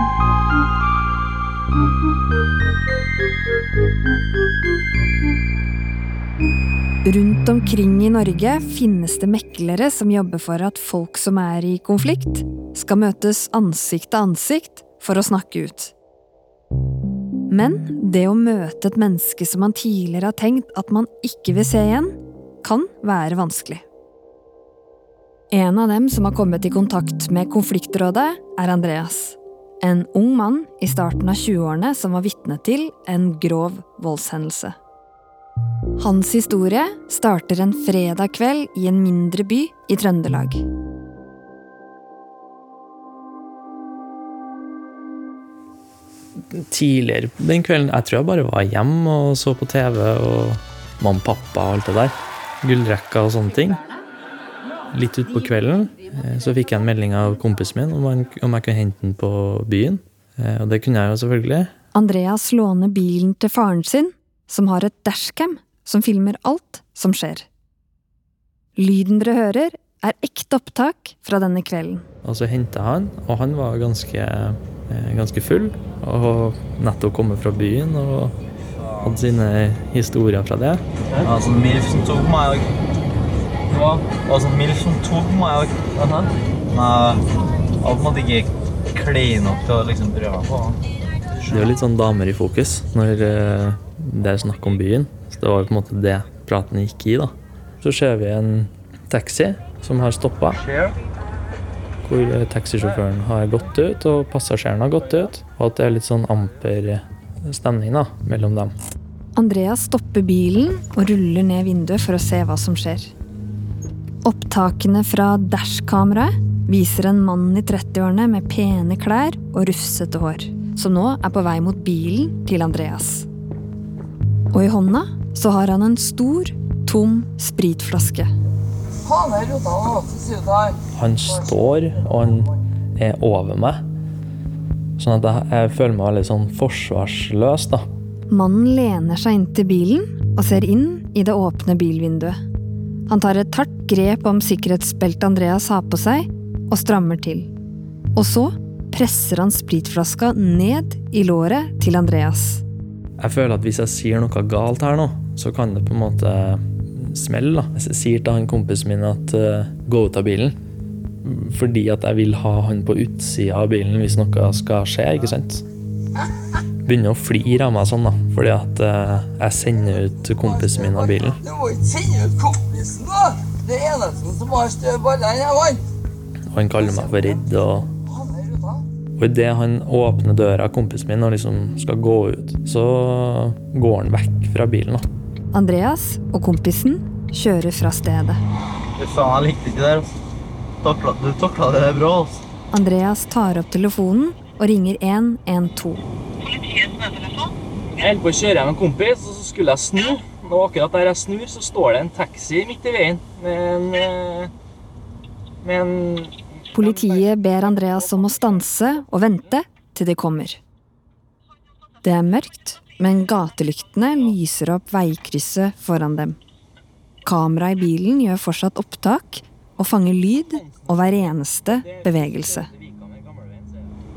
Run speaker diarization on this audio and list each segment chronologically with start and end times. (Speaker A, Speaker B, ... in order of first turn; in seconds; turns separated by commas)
Speaker A: 7.0-15.9, Speaker A: 17.5-23.8, Speaker A: 25.5-34.8, Speaker A: 36.0-40.6, Speaker B: 46.5-53.8, Speaker B: 54.9-61.7, Speaker A: 61.9-67.5, Speaker A: 68.8-72.0, Speaker B: 72.2-78.3, Speaker B: 79.0-80.8, Speaker C: 81.2-82.7, Speaker D: 83.7-84.0, Speaker C: 83.9-87.2, Speaker C: 87.8-90.7, Speaker B: 91.5-100.6, Speaker C: 100.7-100.9, Speaker B: 102.0-108.7, Speaker A: 109.3-113.1, Speaker A: 114.2-123.3, Speaker A: 124.5-128.3, Speaker E: 129.1-130.7, Speaker B: 130.9-133.8, Speaker B: 135.0-137.8, Speaker A: 138.3-142.4, Speaker A: 143.1-147.5, Speaker A: 148.1-152.6, Speaker B: 153.2-160.6, Speaker B: 161.2-165.6, Speaker B: 166.8-171.4, Speaker E: 171.5-175.8, Speaker B: 176.5-177.9, Speaker B: 179.2-185.1, Speaker A: 185.5-188.4, Speaker C: 189.0-190.1, Speaker C: 190.8-192.4, Speaker A: 192.7-196.0, Speaker D: 198.0-204.5, Speaker D: 205.6-208.7, Speaker A: 206.7-210.6, Speaker A: 212.0-216.4, Speaker A: 217.2-222.7, Speaker D: 220.3-221.3, Speaker D: 221.8-223.8